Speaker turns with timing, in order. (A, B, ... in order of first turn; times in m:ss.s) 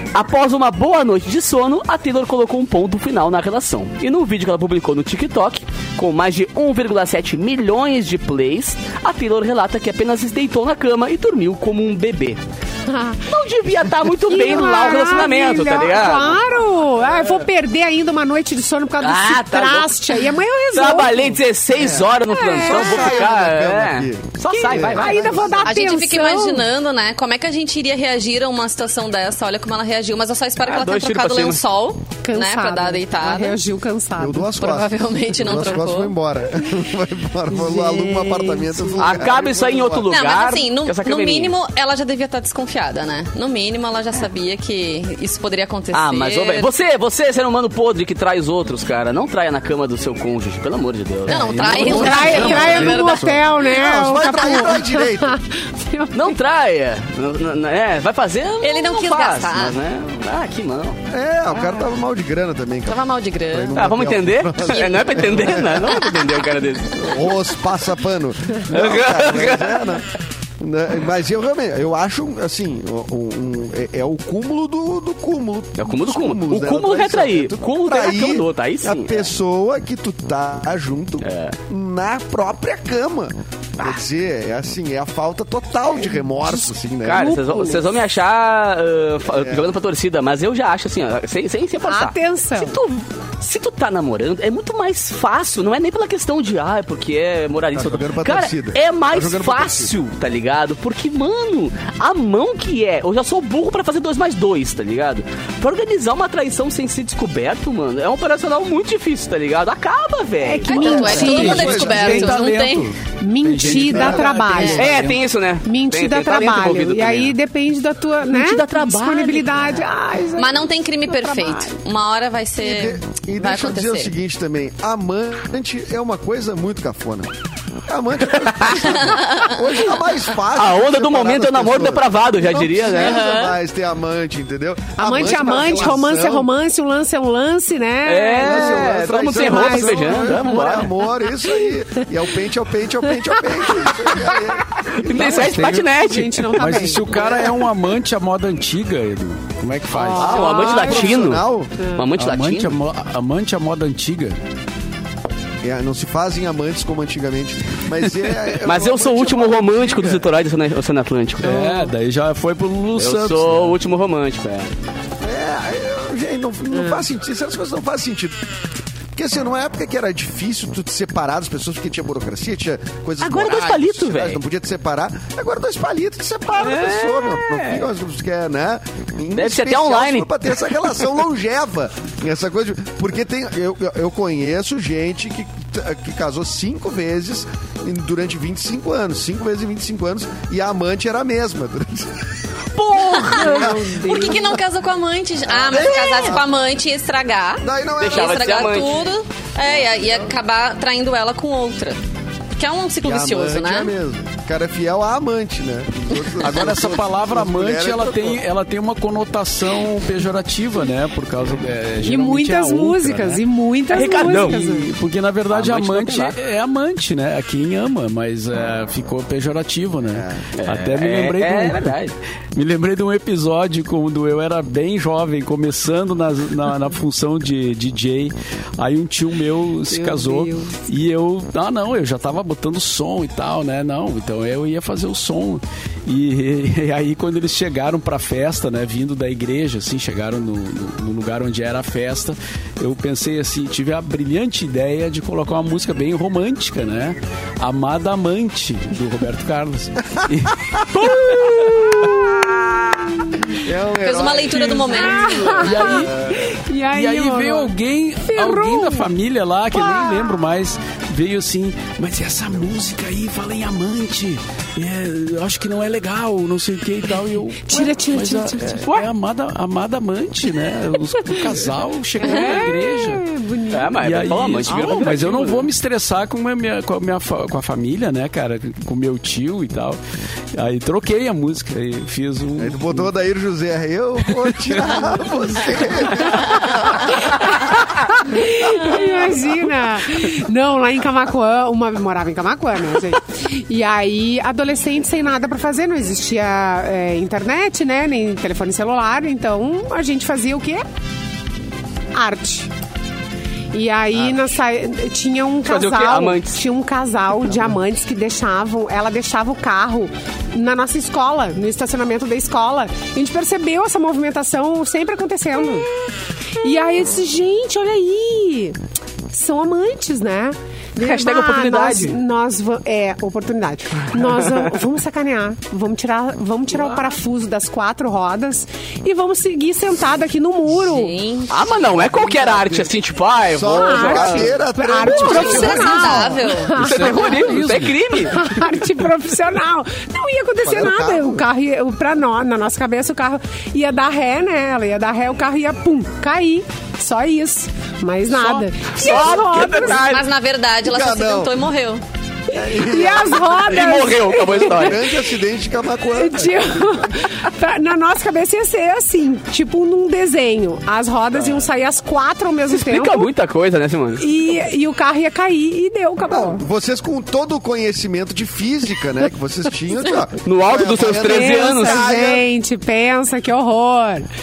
0:00.1-0:12.4 A
0:12.9-0:13.2 B
0:13.3-0:16.5 A
0:14.3-0:21.4 B
0:19.0-0:25.6 A
0:21.7-0:25.7 C
0:22.3-0:23.2 B
0:24.5-0:26.7 B
0:25.6-0:33.6 D
0:30.6-0:31.6 A
0:32.2-0:34.5 B
0:34.2-0:40.1 C
0:34.6-0:36.1 D
0:37.5-0:39.1 B
0:39.0-0:41.6 A
0:40.1-0:46.7 D
0:45.9-0:52.9 A
0:51.3-0:53.4 D
0:51.4-0:52.6 E
0:51.8-0:56.4 B
0:52.4-0:55.4 C
0:56.1-1:01.0 A
0:58.6-0:59.8 D
1:01.1-1:06.1 C
1:02.9-1:03.9 D
1:03.8-1:07.3 A
1:04.6-1:06.2 D
1:06.9-1:10.1 C
1:08.7-1:10.0 A
1:10.6-1:27.4 C
1:15.8-1:19.3 A
1:21.2-1:21.6 A
1:26.5-1:28.0 B
1:27.0-1:51.2 A
1:29.3-1:29.7 C
1:31.8-1:32.8 B
1:37.7-1:40.0 C
1:50.4-1:52.3 B
1:50.7-1:52.9 D
1:50.9-1:52.4 C
1:51.1-1:55.2 E
1:53.2-1:54.9 B
1:53.7-1:54.3 C
1:54.6-1:57.4 A
1:55.6-2:01.8 B
1:58.3-1:59.8 A
2:00.4-2:04.1 D
2:02.6-2:07.3 C
2:07.9-2:16.5 C
2:08.4-2:08.9 A
2:08.9-2:09.6 D
2:10.5-2:13.6 A
2:15.0-2:20.7 B
2:18.0-2:20.9 A
2:18.4-2:25.7 C
2:24.9-2:26.6 A
2:25.2-2:27.0 B
2:25.5-2:25.9 E
2:26.5-2:30.5 E
2:27.1-2:27.6 C
2:29.9-2:32.0 B
2:30.2-2:32.8 A
2:30.3-2:31.8 C
2:32.2-2:34.4 E
2:35.6-2:40.3 C
2:38.6-2:41.9 A
2:41.4-2:43.8 E
2:43.0-2:44.7 A
2:45.2-2:48.4 C
2:46.7-2:47.0 B
2:49.2-3:12.3 C
2:53.2-2:54.4 A
2:56.6-2:57.9 A
2:59.4-3:01.1 A
3:12.8-3:13.6 A
3:13.2-3:22.0 D
3:13.2-3:14.6 B
3:13.2-3:13.6 C
3:15.5-3:16.5 C
3:15.7-3:16.4 A
3:17.6-3:18.9 C
3:18.0-3:19.0 A
3:19.6-3:20.3 C
3:22.6-3:23.9 D
3:23.0-3:28.4 C
3:26.4-3:33.4 E
3:32.0-3:34.9 B
3:33.9-3:34.6 A
3:34.0-3:42.0 E
3:35.5-3:36.4 A
3:40.1-3:40.4 C
3:40.6-3:42.2 A
3:42.5-4:12.1 E
3:49.9-3:50.8 B
4:10.2-4:10.8 C
4:13.6-4:16.4 C
4:14.0-4:15.7 D
4:14.9-4:17.7 B
4:15.6-4:33.2 E
4:18.3-4:19.1 B
4:19.7-4:20.4 B
4:27.7-4:28.9 B
4:32.2-4:34.0 B
4:33.7-4:35.7 A
4:34.0-4:40.0 E
4:34.7-4:35.1 B
4:40.5-4:43.1 E
4:42.6-4:47.2 C
4:47.6-5:00.8 B
5:02.1-5:02.7 B
5:03.7-5:15.9 B
5:04.1-5:04.5 C
5:05.6-5:06.6 A
5:16.6-5:18.8 B
5:19.3-5:31.2 B
5:21.0-5:22.2 A
5:24.2-5:24.7 A
5:30.7-5:31.9 D
5:31.5-5:34.5 A
5:31.7-5:33.0 C
5:33.5-5:36.2 C
5:33.7-5:37.6 B
5:35.1-5:36.8 D
5:35.2-5:35.8 A
5:36.8-5:38.3 E
5:36.8-5:38.5 A
5:38.2-5:50.0 B
5:40.6-5:41.5 C
5:48.4-5:50.3 A
5:49.8-5:52.0 D
5:50.8-5:51.6 C
5:52.5-5:53.7 C
5:52.5-5:55.0 B
5:53.6-5:55.1 A
5:54.5-5:57.1 C
5:56.1-6:03.3 B
6:02.7-6:04.2 A
6:04.2-6:06.6 B
6:06.3-6:12.5 C
6:10.4-6:12.0 A
6:11.2-6:14.3 B